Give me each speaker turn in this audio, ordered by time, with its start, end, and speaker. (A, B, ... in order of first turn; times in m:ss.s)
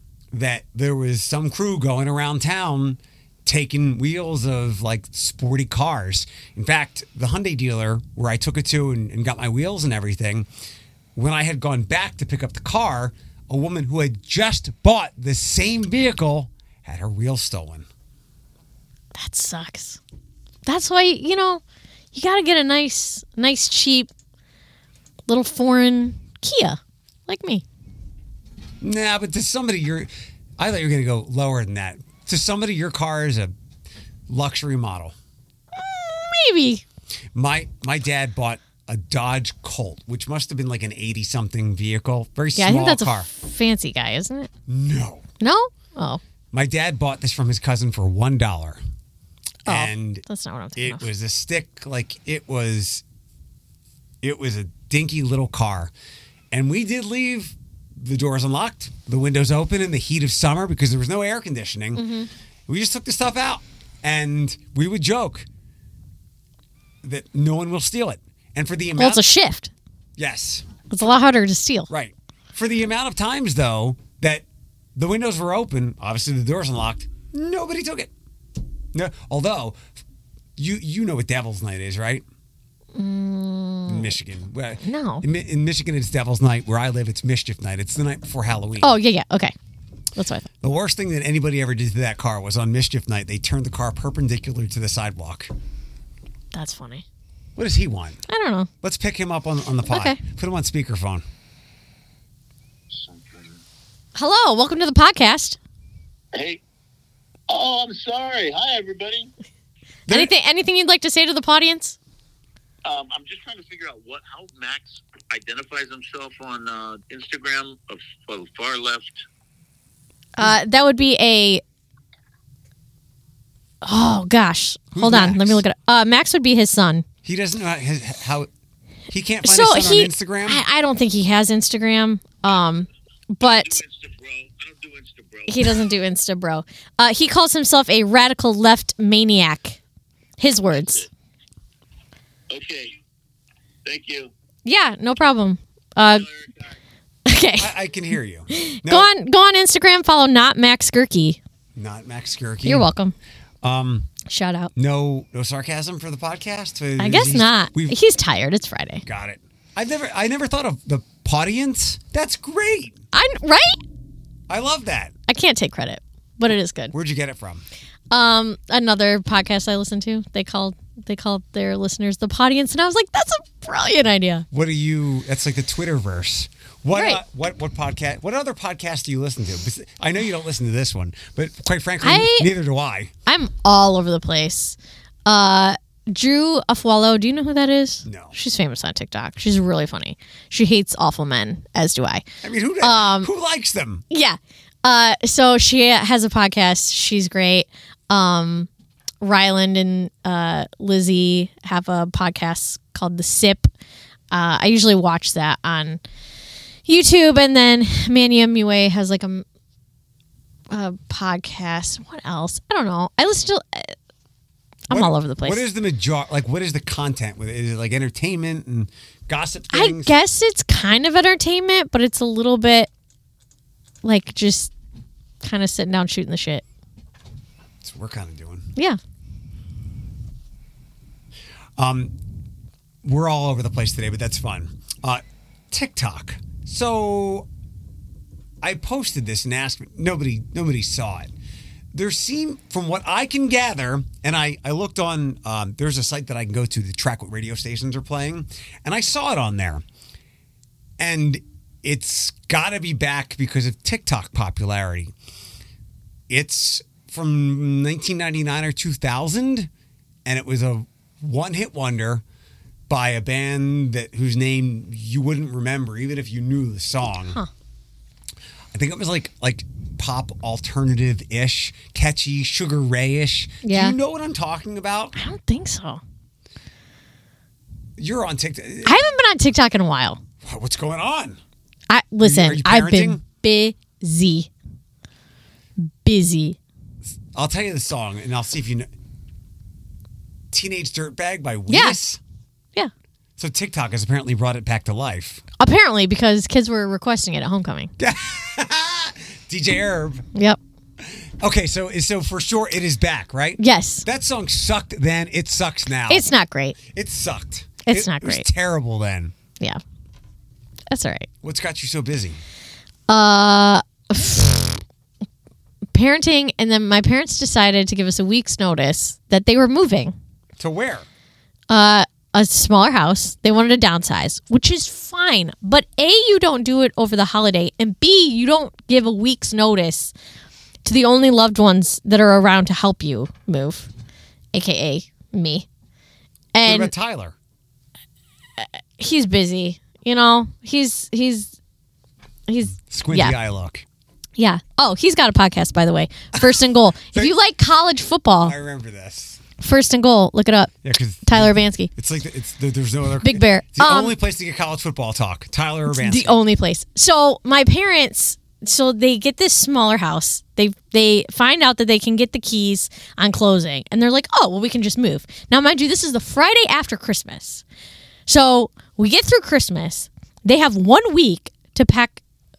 0:00.3-0:10.5 A
0:11.2-0:17.9 A
0:19.1-0:20.0 B
0:20.7-0:21.6 B
0:22.1-0:24.1 B
0:25.3-0:27.6 B
0:28.8-0:33.5 A
0:34.3-0:35.2 A
0:35.7-0:36.8 B
0:37.3-0:43.3 A
0:42.6-0:44.5 B
0:44.7-0:45.2 A
0:45.4-0:46.2 B
0:46.5-0:48.8 A
0:49.7-0:50.2 A
0:49.7-0:51.1 B
0:50.8-0:53.0 A
0:54.2-0:55.9 A
0:56.5-1:02.1 A
1:02.0-1:02.3 B
1:02.7-1:05.5 A
1:07.0-1:09.2 A
1:09.0-1:09.7 B
1:10.2-1:10.7 A
1:10.9-1:11.9 B
1:11.9-1:14.4 A
1:15.0-1:18.1 A
1:18.9-1:19.8 A
1:20.6-1:22.2 A
1:23.0-1:24.1 B
1:23.9-1:28.9 A
1:24.8-1:25.2 B
1:28.8-1:29.6 B
1:30.2-1:30.5 B
1:30.6-1:35.5 A
1:36.5-1:37.0 B
1:37.6-1:38.2 A
1:38.3-1:38.7 B
1:38.8-1:41.2 A
1:39.9-1:40.2 B
1:42.9-1:43.6 C
1:44.2-1:45.6 B
1:46.3-1:46.6 C
1:47.5-1:49.3 C
1:50.1-1:52.0 B
1:52.8-1:59.2 C
2:00.4-2:01.6 B
2:03.8-2:07.0 B
2:04.9-2:05.6 A
2:07.2-2:08.5 A
2:09.1-2:10.6 A
2:09.4-2:13.8 B
2:13.4-2:15.8 C
2:15.5-2:19.8 B
2:20.4-2:21.1 B
2:20.8-2:21.0 C
2:22.5-2:23.0 C
2:23.8-2:24.3 C
2:24.6-2:26.3 B
2:26.1-2:26.7 C
2:27.3-2:27.7 B
2:27.6-2:29.1 A
2:28.5-2:31.4 B
2:31.8-2:32.9 A
2:32.6-2:33.2 B
2:33.6-2:34.1 A
2:34.3-2:34.7 B
2:34.8-2:38.0 A
2:37.0-2:39.0 B
2:39.0-2:43.0 A
2:43.1-2:43.8 B
2:44.5-2:45.1 A
2:45.3-2:46.9 B
2:46.9-2:47.6 A
2:48.1-2:54.5 B
2:54.5-3:03.1 A
2:56.9-2:57.2 B
3:02.0-3:02.5 B
3:03.3-3:12.2 B
3:08.0-3:08.4 A
3:12.4-3:14.0 A
3:12.8-3:13.3 B
3:14.1-3:18.7 B
3:19.2-3:23.7 B
3:24.3-3:26.0 B
3:26.9-3:29.4 B
3:30.7-3:34.0 B
3:34.9-3:35.6 B
3:34.9-3:40.1 A
3:39.7-3:42.9 B
3:44.0-3:44.7 B
3:45.4-3:46.6 B
3:47.8-3:48.7 A
3:51.8-3:52.2 A
3:53.0-3:57.5 A
3:58.6-4:01.3 A
4:01.9-4:09.8 A
4:11.0-4:15.1 A
4:16.3-4:19.7 A
4:20.3-4:22.2 A
4:22.9-4:27.4 A
4:28.7-4:35.2 A
4:33.6-4:34.0 B
4:35.2-4:36.0 B
4:38.0-4:39.0 A
4:38.8-4:40.2 B
4:40.4-4:41.4 A
4:41.9-4:44.5 B
4:42.2-4:43.2 A
4:45.8-4:46.6 B
4:47.4-4:48.9 A
4:50.5-4:52.2 A
4:51.7-4:52.0 B
4:53.4-4:55.4 A
4:55.6-4:57.9 B
4:58.0-5:00.3 A
5:01.4-5:06.3 A
5:03.6-5:04.0 B
5:06.1-5:06.8 B
5:06.8-5:09.3 A
5:07.9-5:08.5 B
5:10.9-5:11.3 B
5:11.4-5:12.4 A
5:13.1-5:14.8 B
5:15.9-5:20.2 B
5:20.6-5:21.1 A
5:21.7-5:30.1 B
5:30.8-5:33.9 B
5:34.5-5:35.7 B
5:36.5-5:36.9 B
5:36.6-5:37.4 A
5:38.6-5:41.5 B
5:42.5-5:43.4 B
5:42.8-5:43.8 A
5:44.4-5:48.6 B
5:46.3-5:47.3 A
5:48.4-5:49.4 A
5:49.6-5:51.9 B
5:50.8-5:56.4 A
5:53.2-5:54.2 B
5:55.9-6:07.6 B
6:08.3-6:12.2 B